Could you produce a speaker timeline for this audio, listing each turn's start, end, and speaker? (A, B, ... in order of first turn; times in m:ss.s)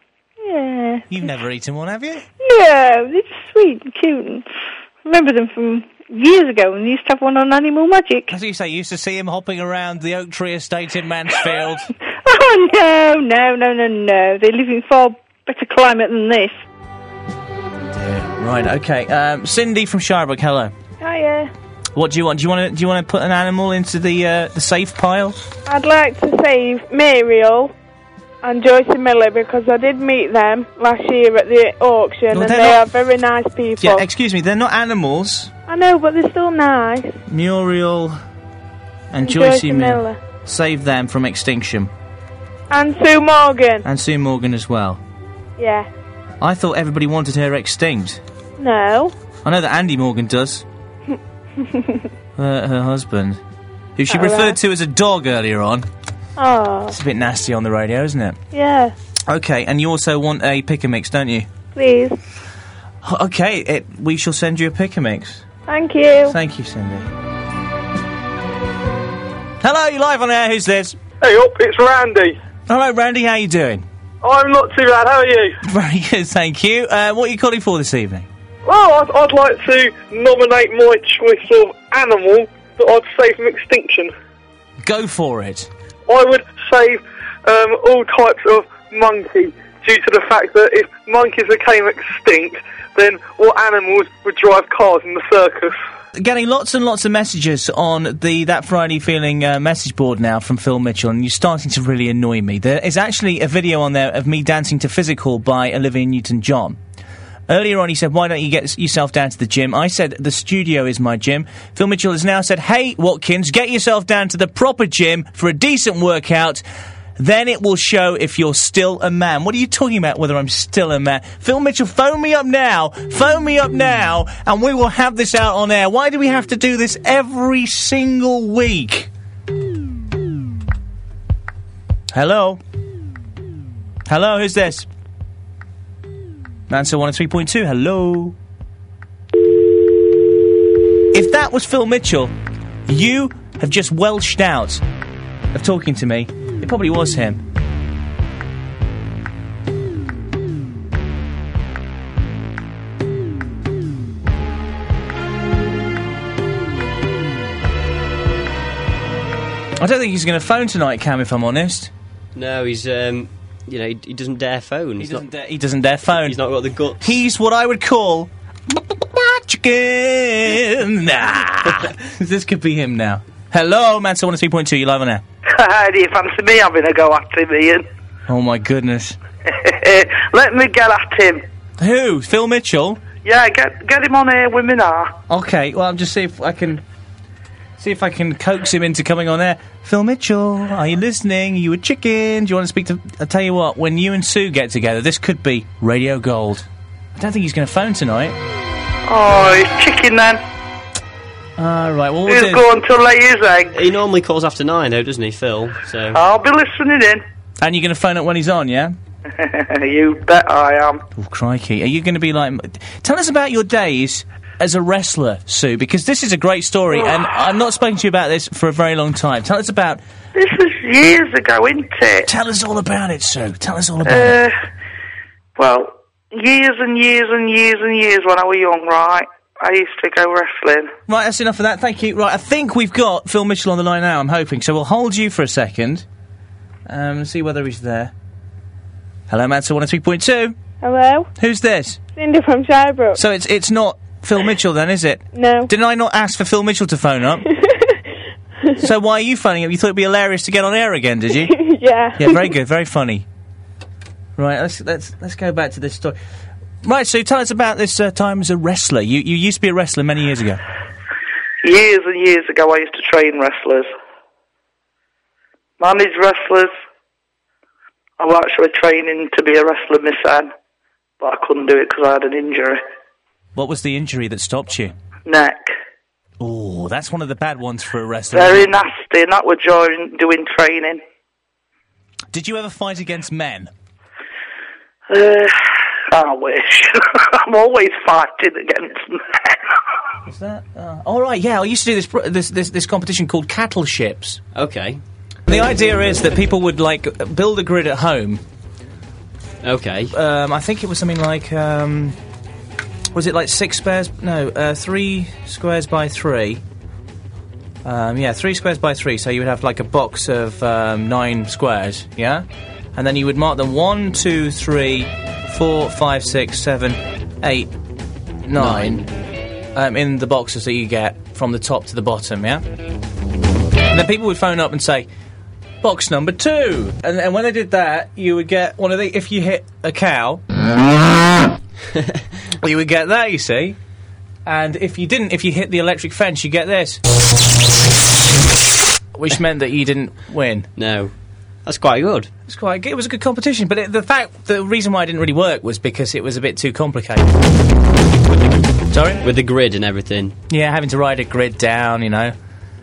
0:00.4-0:01.0 A
0:01.1-0:02.2 B
0:02.4-0:04.3 A
0:05.0-0:08.1 A
0:08.3-0:11.9 B
0:12.4-0:16.4 A
0:17.9-0:20.7 B
0:21.0-0:21.5 C
0:21.9-0:25.4 B
0:25.7-0:27.7 C
0:28.4-0:34.0 C
0:32.3-0:32.9 B
0:33.8-0:35.5 B
0:35.7-0:37.1 C
0:37.3-0:38.1 B
0:39.1-0:41.9 B
0:39.2-0:40.2 C
0:42.7-0:43.8 C
0:43.8-0:45.0 B
0:45.6-0:45.9 C
0:46.4-0:48.2 B
0:48.6-0:49.1 C
0:49.4-0:50.6 B
0:52.4-0:53.4 B
0:54.0-0:55.8 B
0:54.1-0:54.6 C
0:56.4-0:57.0 C
0:56.9-0:58.4 B
0:58.5-0:58.9 C
0:59.3-1:01.5 B
1:01.8-1:02.1 C
1:03.0-1:05.4 B
1:05.7-1:06.4 C
1:06.2-1:07.1 B
1:09.6-1:11.0 B
1:11.2-1:12.4 D
1:12.7-1:13.8 B
1:14.2-1:15.5 D
1:15.6-1:18.3 B
1:18.6-1:24.1 D
1:24.8-1:25.7 B
1:26.1-1:35.8 D
1:36.1-1:46.8 B
1:47.5-1:56.6 B
1:57.2-2:09.1 B
2:12.1-2:12.6 B
2:14.1-2:14.9 B
2:16.7-2:18.4 B
2:21.1-2:22.3 B
2:22.9-2:24.8 B
2:25.5-2:27.4 B
2:39.8-2:41.9 B
2:42.3-2:45.3 E
2:45.0-2:46.4 B
2:46.1-2:47.2 E
2:47.0-2:55.2 B
2:55.5-2:57.8 F
2:58.3-2:59.2 B
2:59.5-3:01.4 F
3:01.8-3:03.1 B
3:03.2-3:05.1 F
3:05.3-3:06.8 B
3:07.8-3:18.4 B
3:19.1-3:20.4 F
3:21.6-3:22.7 B
3:22.3-3:23.8 F
3:23.7-3:26.2 E
3:26.1-3:27.2 F
3:27.6-3:29.0 B
3:29.4-3:31.0 F
3:31.2-3:40.0 B
3:40.4-3:42.3 F
3:42.2-3:44.4 B
3:44.0-3:44.5 F
3:45.6-3:50.9 F
3:51.1-3:56.0 B
3:56.9-3:58.1 B
3:59.3-4:00.5 B
4:00.8-4:01.3 C
4:01.4-4:02.0 B
4:02.2-4:03.2 C
4:03.1-4:07.5 B
4:05.3-4:05.7 C
4:08.8-4:11.6 B
4:11.5-4:12.5 C
4:12.2-4:13.2 B
4:14.4-4:16.2 B
4:16.8-4:20.6 B
4:21.6-4:23.9 F
4:25.8-4:26.7 F
4:28.2-4:30.5 F
4:31.2-4:32.8 F
4:33.5-4:34.9 B
4:35.2-4:35.7 F
4:36.4-4:38.7 B
4:38.3-4:41.0 F
4:42.3-4:43.7 B
4:45.1-4:45.5 F
4:46.1-4:49.6 F
4:50.3-4:54.4 B
4:54.5-4:55.0 E
4:55.5-4:58.4 B
4:59.6-5:00.1 E
5:00.1-5:02.2 B
5:03.1-5:06.6 B
5:07.8-5:17.7 B
5:18.5-5:19.0 B
5:18.6-5:19.0 E
5:19.7-5:22.6 B
5:23.9-5:25.1 B
5:25.8-5:30.4 B
5:32.6-5:33.8 B
5:34.4-5:37.0 B
5:39.1-5:40.7 B
5:40.8-5:41.1 E
5:41.6-5:42.3 E
5:42.5-5:47.3 B
5:48.3-5:48.7 E
5:48.9-5:49.2 B
5:49.2-5:50.4 E
5:50.5-5:52.3 B